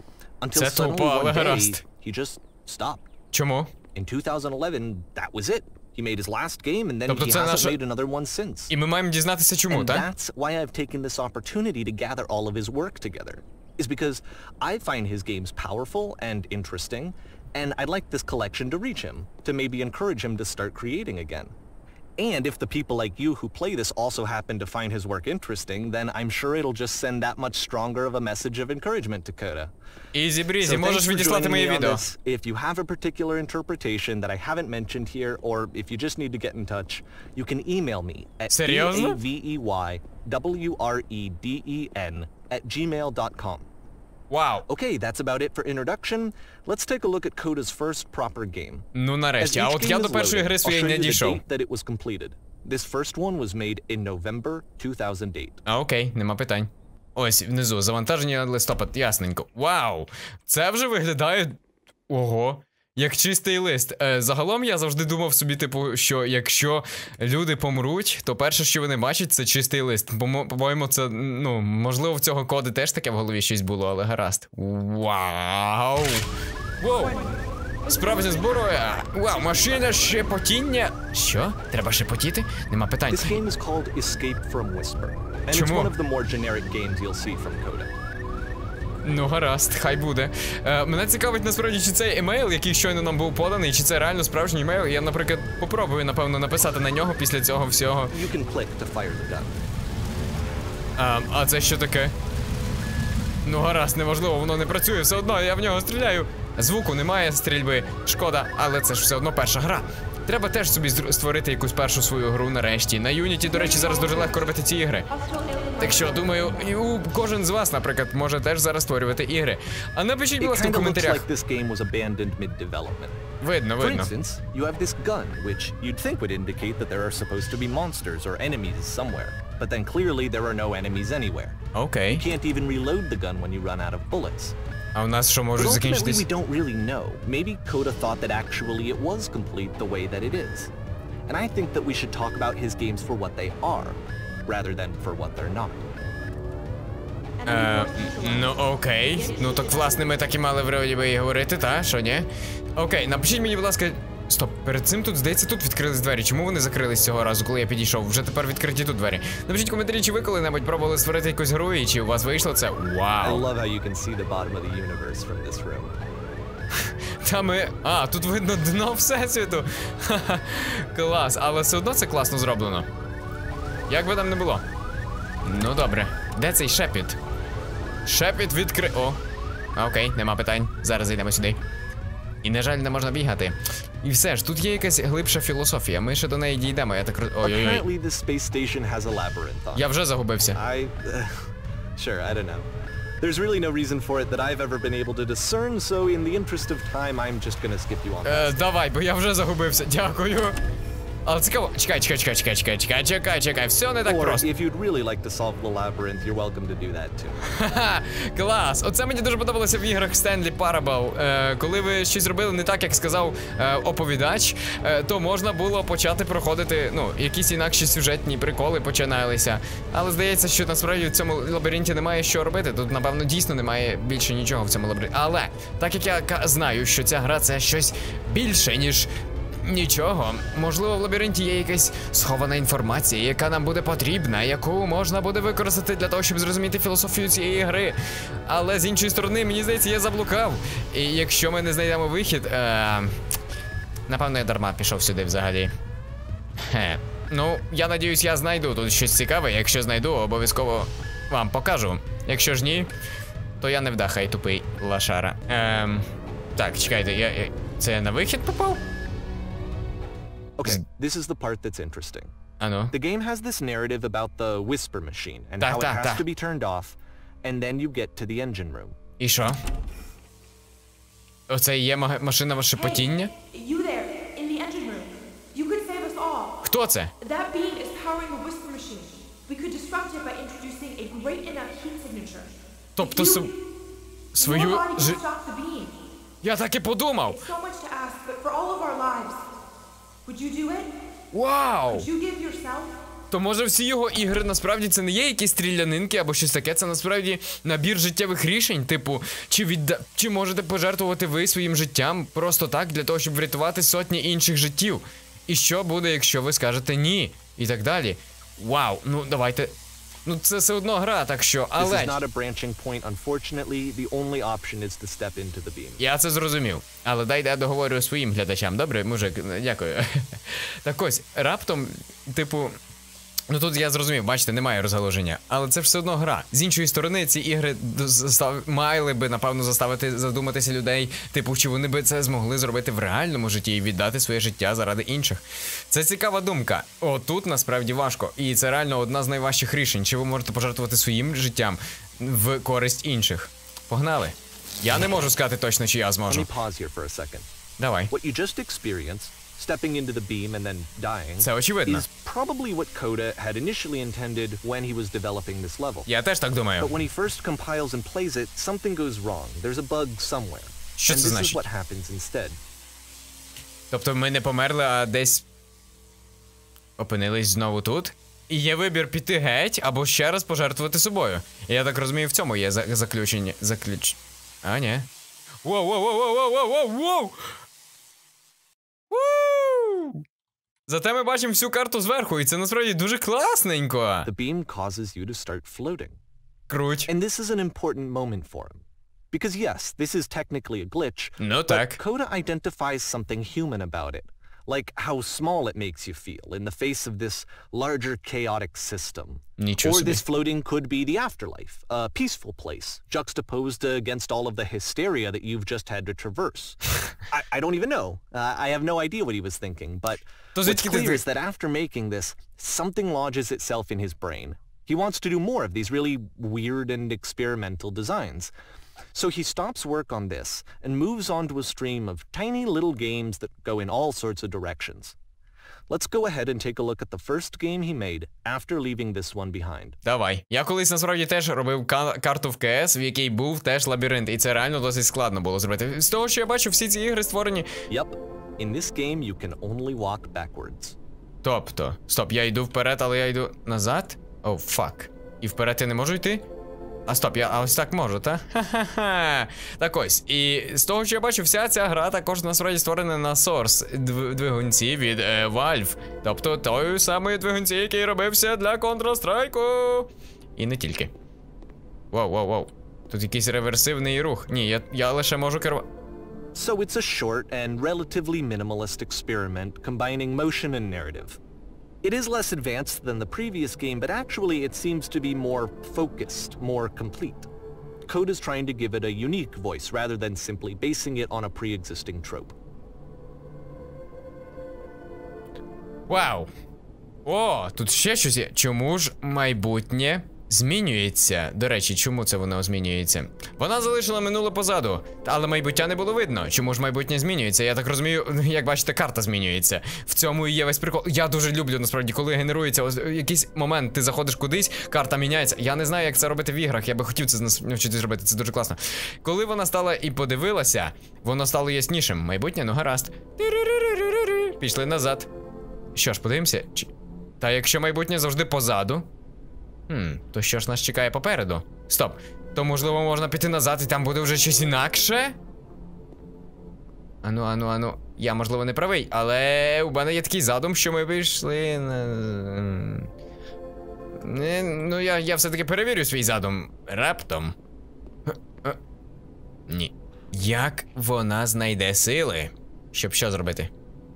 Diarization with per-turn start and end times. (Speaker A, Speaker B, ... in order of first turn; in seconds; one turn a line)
Speaker A: 0.4-3.1
Speaker B: 0.5-1.8
Speaker B: 3.3-3.7
Speaker A: 3.9-8.7
Speaker B: 7.1-7.8
Speaker B: 8.7-10.1
Speaker A: 9.7-21.5
Speaker A: 22.2-29.7
Speaker B: 30.1-32.0
Speaker A: 30.6-43.7
Speaker B: 38.5-39.2
Speaker B: 44.3-44.6
Speaker A: 44.7-48.9
Speaker B: 48.9-51.4
Speaker A: 49.4-55.6
Speaker B: 55.6-76.2
Speaker B: 76.8-77.2
Speaker C: 76.9-79.8
Speaker B: 77.9-83.4
Speaker A: 83.1-87.9
Speaker B: 85.5-85.9
Speaker B: 89.0-98.2
Speaker A: 98.1-99.7
Speaker B: 101.0-102.1
Speaker B: 103.4-115.1
Speaker C: 113.5-116.8
Speaker B: 115.8-121.2
Speaker A: 120.4-123.2
Speaker B: 123.4-124.1
Speaker A: 123.8-131.6
Speaker B: 131.7-132.2
Speaker A: 132.1-134.5
Speaker B: 134.9-136.3
Speaker A: 135.6-140.7
Speaker A: 141.3-145.9
Speaker C: 147.4-150.3
Speaker B: 147.4-163.4
Speaker A: 163.2-166.0
Speaker B: 166.7-172.9
Speaker B: 173.9-174.6
Speaker B: 175.4-177.2
Speaker B: 178.0-179.2
Speaker B: 179.7-181.6
Speaker B: 182.4-187.8
Speaker A: 187.4-189.9
Speaker B: 189.7-190.6
Speaker A: 190.5-191.4
Speaker A: 192.0-192.7
Speaker A: 193.2-198.6
Speaker B: 198.2-200.6
Speaker B: 201.2-204.5
Speaker A: 204.0-207.4
Speaker B: 207.4-229.1
Speaker B: 229.6-243.1
Speaker B: 244.1-245.7
Speaker B: 246.6-252.9
Speaker B: 253.6-258.8
Speaker A: 260.6-262.3
Speaker B: 262.6-262.9
Speaker A: 262.9-269.0
Speaker B: 265.6-266.2
Speaker B: 269.2-269.6
Speaker B: 271.5-273.3
Speaker C: 272.8-276.6
Speaker B: 276.6-277.1
Speaker C: 277.2-283.5
Speaker B: 283.0-283.5
Speaker B: 284.3-285.2
Speaker C: 284.4-286.0
Speaker B: 286.4-287.4
Speaker C: 287.3-289.4
Speaker C: 290.2-290.9
Speaker B: 291.3-292.1
Speaker C: 291.9-292.9
Speaker B: 293.3-312.2
Speaker A: 311.8-316.0
Speaker B: 316.0-322.7
Speaker B: 323.5-346.5
Speaker A: 346.3-347.5
Speaker B: 347.8-348.1
Speaker A: 348.1-356.1
Speaker B: 351.4-352.1
Speaker B: 356.1-356.9
Speaker A: 356.8-362.6
Speaker B: 361.0-361.6
Speaker B: 363.9-365.4
Speaker B: 367.0-375.1
Speaker B: 375.6-377.4
Speaker B: 379.1-380.2
Speaker B: 380.9-384.3
Speaker A: 384.2-386.2
Speaker B: 386.7-387.1
Speaker A: 387.1-418.5
Speaker B: 391.4-392.0
Speaker B: 399.6-400.2
Speaker B: 410.5-411.2
Speaker A: 419.1-425.1
Speaker A: 425.9-430.0
Speaker B: 430.0-437.7
Speaker A: 437.9-441.0
Speaker B: 441.4-446.4
Speaker B: 447.1-461.1
Speaker B: 462.1-465.9
Speaker A: 466.5-471.4
Speaker A: 472.0-477.5
Speaker A: 478.1-482.5
Speaker B: 486.1-486.5
Speaker B: 487.2-515.3
Speaker B: 515.9-519.1
Speaker B: 519.9-525.4
Speaker B: 527.2-533.1
Speaker B: 534.2-537.5
Speaker B: 538.3-538.8
Speaker B: 539.7-543.7